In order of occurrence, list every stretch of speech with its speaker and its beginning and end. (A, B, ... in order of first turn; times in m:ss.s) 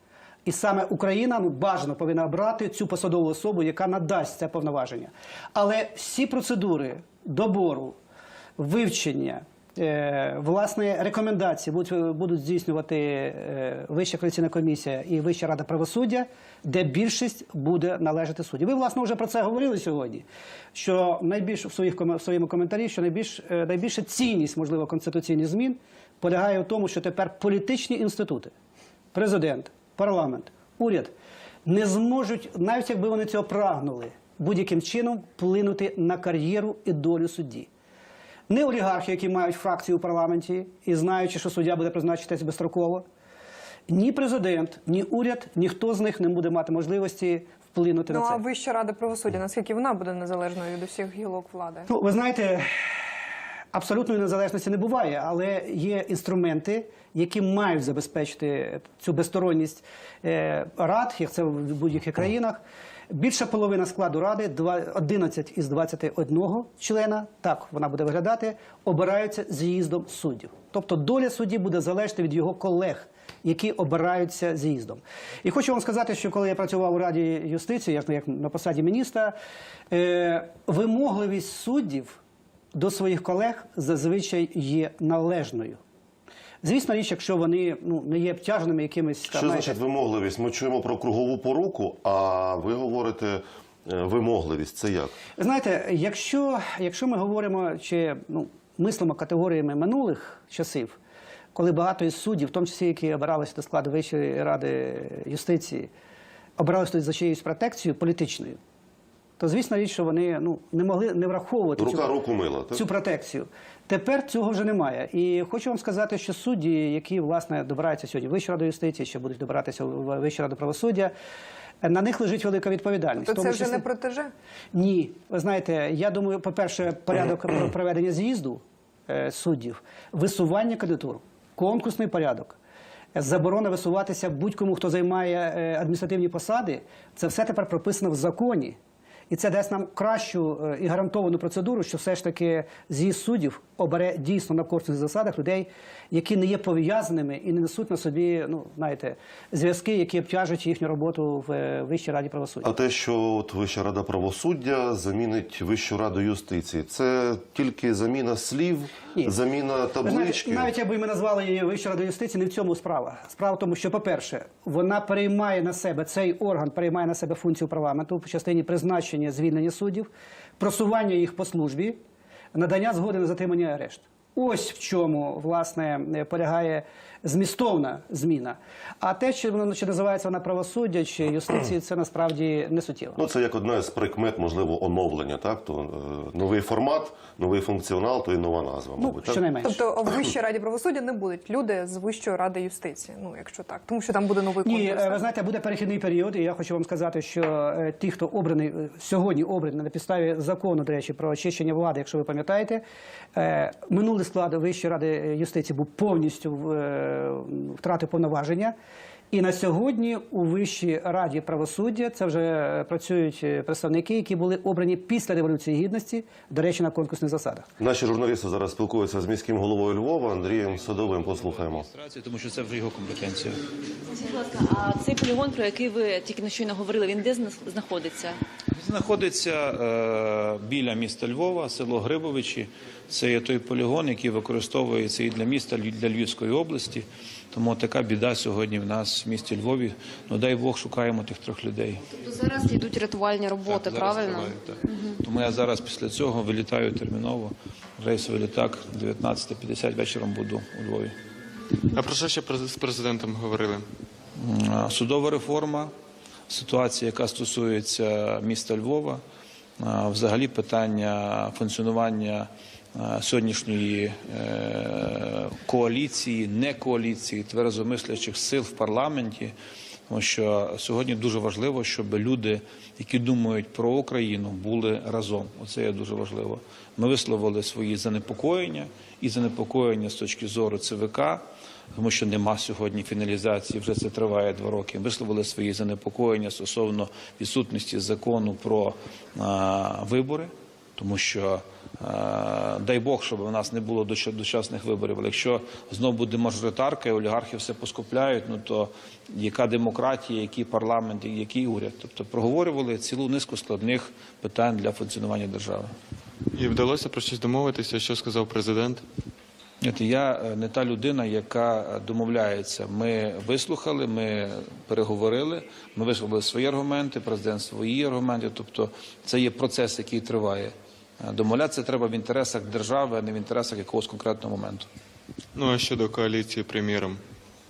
0:00.5-0:08.0 A
0:08.6-0:28.5 A
0:29.1-0:31.1 A
0:31.6-0:37.7 A
0:38.5-0:43.0 A
0:43.9-0:48.4 A
0:48.1-0:51.9 B
0:51.9-0:52.7 A
0:53.7-1:19.4 A
1:19.9-1:22.2 A
1:22.7-1:25.8 A
1:26.6-1:29.8 A
1:29.3-1:35.2 C
1:35.4-1:41.0 A
1:41.6-1:45.9 A
1:46.6-1:48.6 A
1:49.4-1:52.1 A
1:51.8-1:52.8 C
1:52.7-2:01.1 A
2:01.8-2:03.8 A
2:03.2-2:04.3 B
2:04.7-2:12.6 A
2:13.2-2:18.8 A
2:19.3-2:32.7 A
2:32.6-2:40.7 C
2:40.0-2:52.0 A
2:52.5-3:03.2 A
3:03.2-3:09.4 C
3:09.0-3:09.8 A
3:09.6-3:15.2 B
3:14.6-3:22.8 A
3:23.4-3:28.7 A
3:29.3-3:37.7 A
3:37.8-3:41.9 C
3:40.2-3:43.6 D
3:44.1-3:48.4 E
3:48.7-4:02.2 D
4:02.2-4:05.2 F
4:03.6-4:11.1 D
4:11.9-4:13.8 G
4:14.4-4:15.9 D
4:16.5-4:19.2 D
4:19.8-4:29.5 D
4:30.1-4:41.4 D
4:41.9-5:05.9 D
5:06.5-5:09.0 G
5:09.8-5:24.9 D
5:25.6-5:27.2 G